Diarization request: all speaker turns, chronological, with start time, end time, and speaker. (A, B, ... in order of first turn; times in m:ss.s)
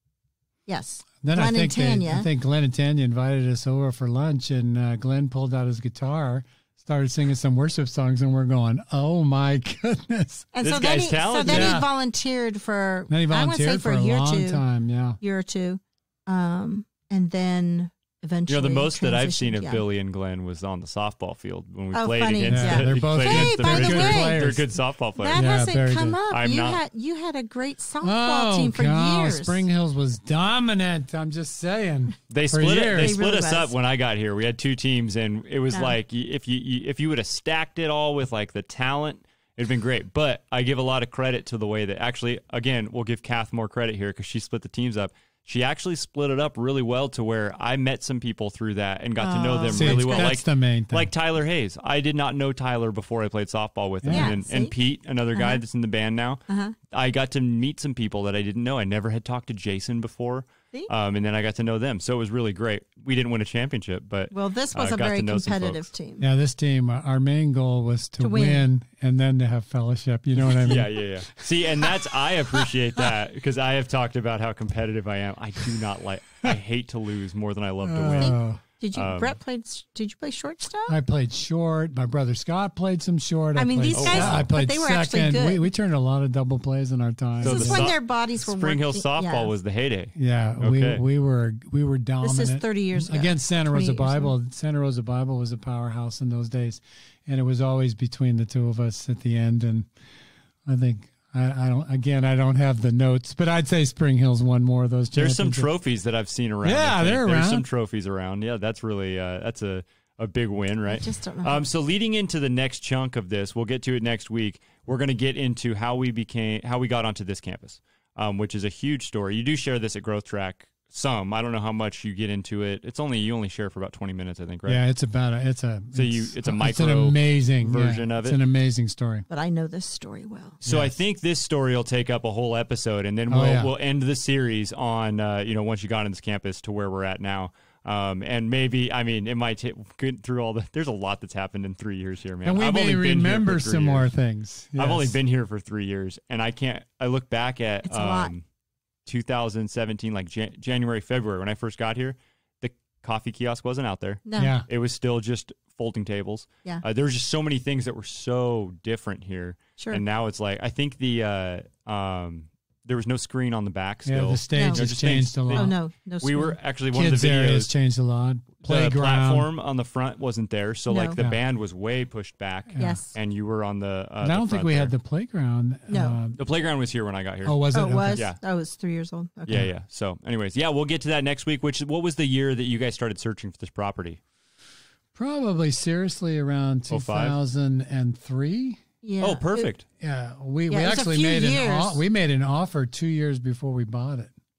0:00.7-0:02.3 A
0:01.2-0:10.5 B
0:10.5-0:14.6 A
0:10.6-0:11.8 C
0:11.4-0:11.9 B
0:13.1-0:15.2 B
0:15.2-0:19.8 A
0:18.5-0:25.4 C
0:21.9-0:24.4 A
0:22.4-0:24.6 B
0:25.2-0:29.6 A
0:25.3-0:26.2 B
0:26.3-0:26.8 C
0:28.0-0:33.2 B
0:32.3-1:05.9 C
0:32.9-0:33.7 A
0:49.2-0:50.4 A
0:49.7-0:51.1 B
0:54.0-0:54.3 B
0:54.1-0:54.7 A
0:55.3-0:55.6 A
0:56.5-0:56.7 A
1:04.3-1:06.2 A
1:06.2-1:11.9 B
1:08.2-1:08.6 A
1:10.4-1:18.4 C
1:17.8-1:18.6 B
1:18.2-1:21.0 A
1:18.9-1:19.3 C
1:20.9-1:27.9 B
1:23.6-1:25.6 A
1:23.9-1:24.4 C
1:27.4-1:31.0 C
1:27.4-1:29.5 A
1:30.2-1:39.9 B
1:32.2-1:34.3 A
1:40.6-1:45.7 B
1:45.1-2:04.8 C
1:46.6-1:47.6 B
1:50.9-1:51.7 A
2:04.6-2:09.2 B
2:05.9-2:08.4 C
2:09.3-2:10.6 A
2:10.6-2:24.1 C
2:10.6-2:11.0 B
2:13.3-2:13.7 B
2:22.4-2:25.2 B
2:24.8-2:28.4 C
2:27.8-2:28.3 A
2:29.0-2:47.7 C
2:34.2-2:34.5 A
2:34.4-2:34.7 B
2:44.0-2:45.7 B
2:44.5-2:46.6 A
2:46.9-2:49.5 B
2:48.6-2:54.9 C
2:50.9-2:51.2 A
2:52.7-2:53.0 B
2:52.8-2:53.1 A
2:54.2-2:56.4 B
2:55.9-2:56.2 A
2:56.4-2:58.4 C
2:57.4-2:58.2 B
2:57.7-2:59.6 A
2:59.4-3:04.2 C
3:05.1-3:08.8 B
3:06.9-3:07.4 C
3:09.0-3:09.7 A
3:09.2-3:09.8 C
3:10.0-3:14.3 B
3:10.7-3:12.0 A